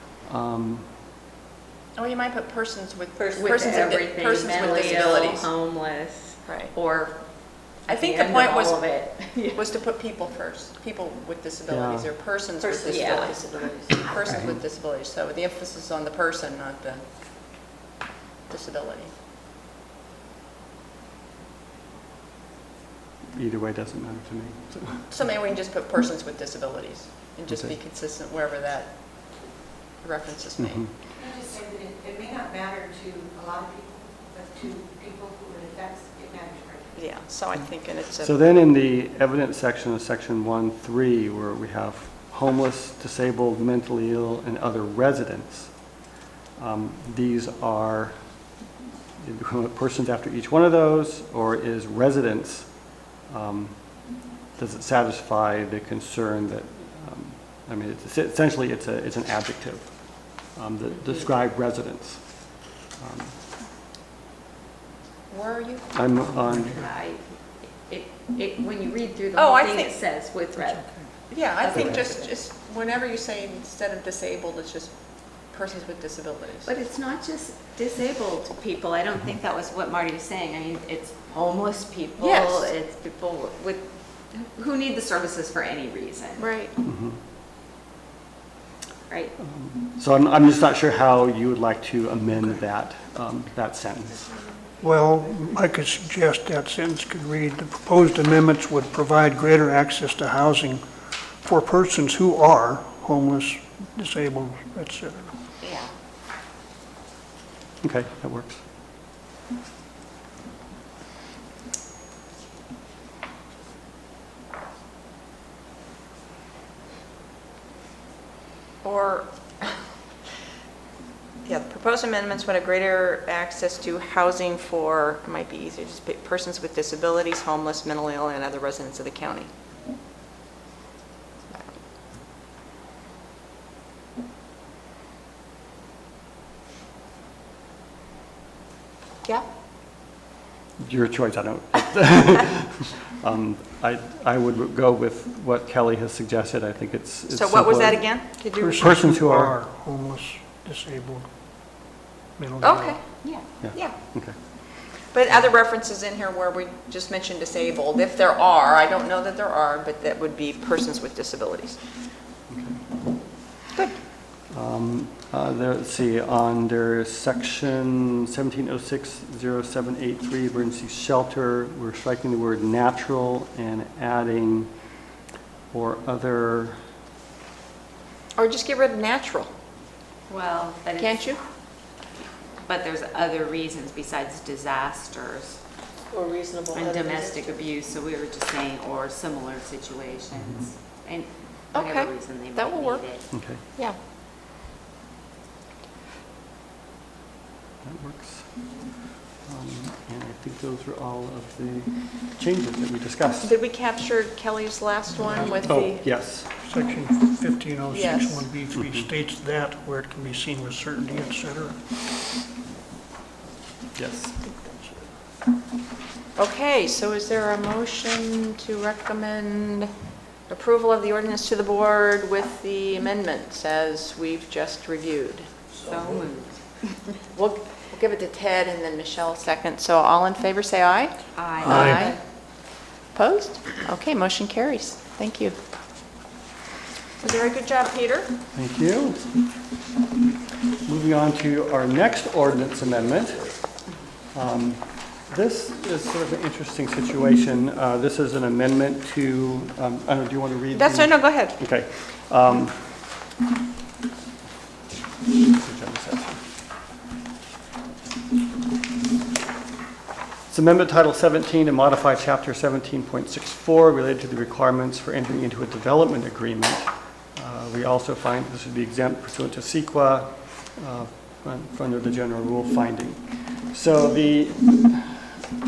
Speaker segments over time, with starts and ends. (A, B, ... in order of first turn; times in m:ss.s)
0:00.2-0:00.9 A
0:02.0-0:05.5 B
0:03.2-0:05.2 C
0:03.4-0:07.2 D
0:06.5-0:06.7 B
0:07.8-0:09.6 D
0:07.9-0:08.8 B
0:09.5-0:17.0 B
0:11.7-0:12.1 A
0:12.6-0:14.3 C
0:12.9-0:13.3 D
0:18.5-0:19.1 B
0:23.3-0:25.1 A
0:25.1-0:28.9 B
0:30.0-0:30.9 B
0:31.8-0:36.8 C
0:36.9-0:38.4 B
0:38.2-0:45.7 A
0:46.6-0:48.1 A
0:49.2-0:52.7 A
0:53.3-0:53.8 A
0:54.6-0:59.9 A
1:00.6-1:02.2 A
1:03.0-1:03.3 A
1:05.3-1:05.9 B
1:05.9-1:06.8 A
1:06.6-1:07.2 D
1:07.9-1:10.9 D
1:09.4-1:09.9 B
1:11.3-1:14.9 B
1:11.6-1:12.3 D
1:15.5-1:16.7 B
1:16.6-1:26.4 D
1:22.2-1:22.7 B
1:26.4-1:26.8 B
1:26.8-1:27.2 A
1:29.1-1:29.3 D
1:29.6-1:34.3 A
1:34.8-1:40.8 E
1:41.4-1:45.3 E
1:45.6-1:45.9 D
1:47.8-1:48.6 A
1:58.8-1:59.8 B
2:01.4-2:09.5 B
2:20.8-2:28.1 A
2:27.3-2:28.8 B
2:28.6-2:31.3 E
2:28.8-2:29.5 A
2:32.4-2:33.0 E
2:32.6-2:33.0 B
2:33.6-2:34.3 A
2:35.1-2:41.8 B
2:42.5-2:42.8 A
2:44.5-2:54.7 A
2:55.7-2:56.8 A
2:58.4-2:59.5 B
3:00.3-3:01.4 D
3:01.0-3:01.4 B
3:02.6-3:05.6 D
3:06.1-3:07.6 C
3:06.7-3:13.3 D
3:11.7-3:13.0 B
3:13.3-3:13.6 A
3:17.8-3:18.4 A
3:19.5-3:23.5 A
3:23.4-3:26.0 B
3:25.6-3:26.5 A
3:26.6-3:31.8 E
3:27.9-3:28.4 B
3:28.7-3:29.1 A
3:34.0-3:34.4 A
3:36.4-3:39.9 B
3:40.5-3:45.5 B
3:45.8-3:46.6 D
3:47.3-3:52.2 B
3:51.3-3:52.2 D
3:51.6-3:52.0 E
3:53.1-3:55.6 B
3:57.2-3:58.3 B
3:58.5-3:59.2 A
4:00.8-4:03.5 A
4:04.3-4:12.8 A
4:10.7-4:11.6 B
4:15.4-4:16.4 A
4:20.5-4:35.3 A